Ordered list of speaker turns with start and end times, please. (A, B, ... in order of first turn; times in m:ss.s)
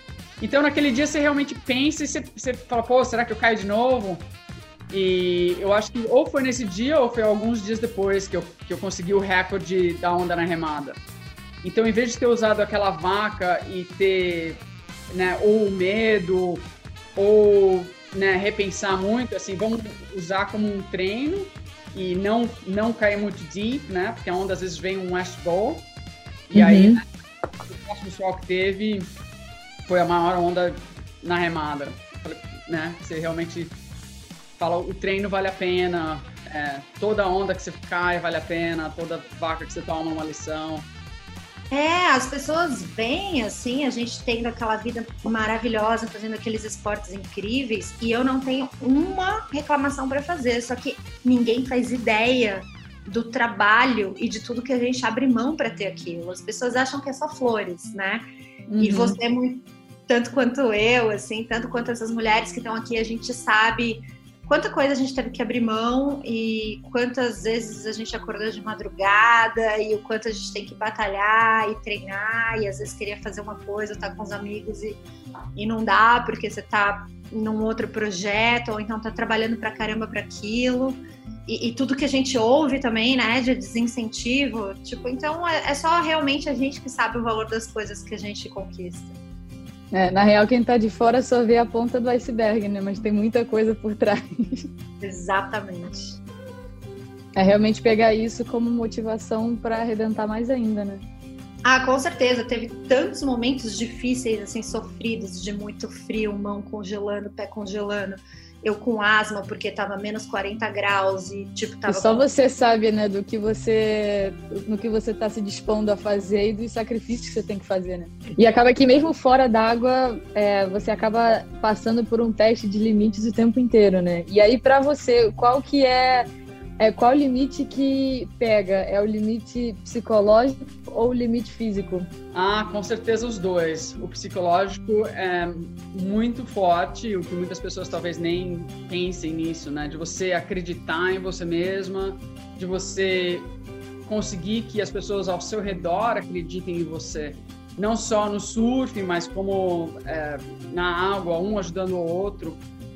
0:00.4-0:04.3 A
0:04.9-0:11.0 A
0:11.6-0:25.9 A
0:26.5-0:27.0 A
0:26.5-0:27.0 B
0:27.6-0:29.1 A
0:29.9-0:33.8 A
0:34.6-0:40.9 A
0:41.7-0:58.2 C
0:58.7-0:59.2 B
0:58.8-1:15.0 C
1:15.6-1:29.2 C
1:29.9-1:34.7 B
1:35.0-1:36.2 C
1:37.3-1:41.0 B
1:41.6-1:52.2 C
1:51.9-2:06.3 B
2:06.8-2:12.1 B
2:12.3-2:23.5 A
2:24.0-2:32.6 A